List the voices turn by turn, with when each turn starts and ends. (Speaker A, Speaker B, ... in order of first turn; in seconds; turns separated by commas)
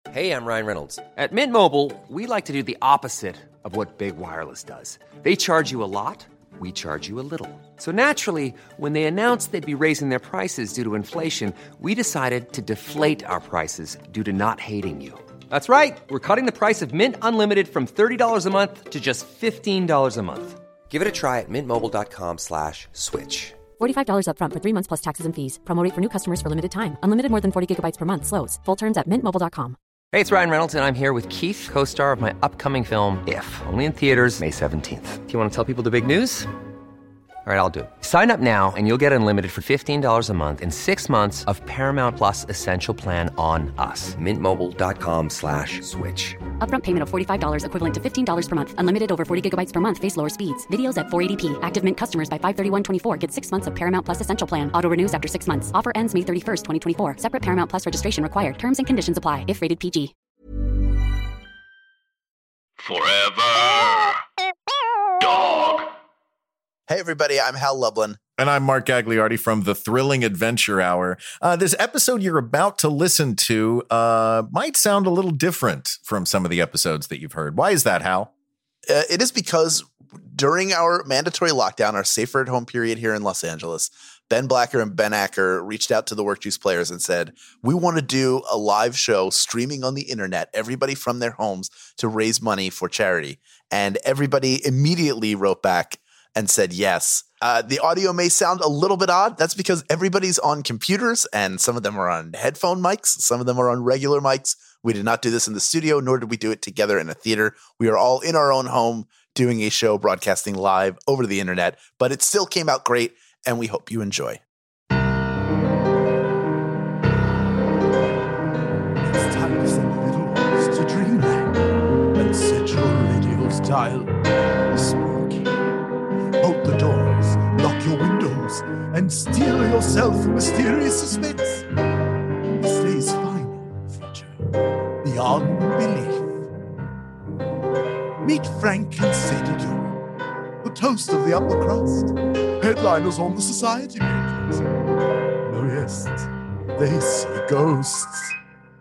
Speaker A: 0.1-23.6, Speaker B: 23.8-29.8, Speaker A: 30.1-36.5, Speaker A: 37.5-46.4, Speaker B: 46.6-60.1, Speaker C: 62.8-64.2, Speaker C: 65.2-65.9, Speaker D: 66.9-68.2, Speaker E: 68.4-78.3, Speaker D: 78.9-114.4, Speaker F: 119.0-125.8, Speaker F: 126.4-131.7, Speaker F: 132.6-134.3, Speaker F: 135.0-136.5, Speaker F: 138.2-139.9, Speaker F: 140.6-144.7, Speaker F: 145.4-148.3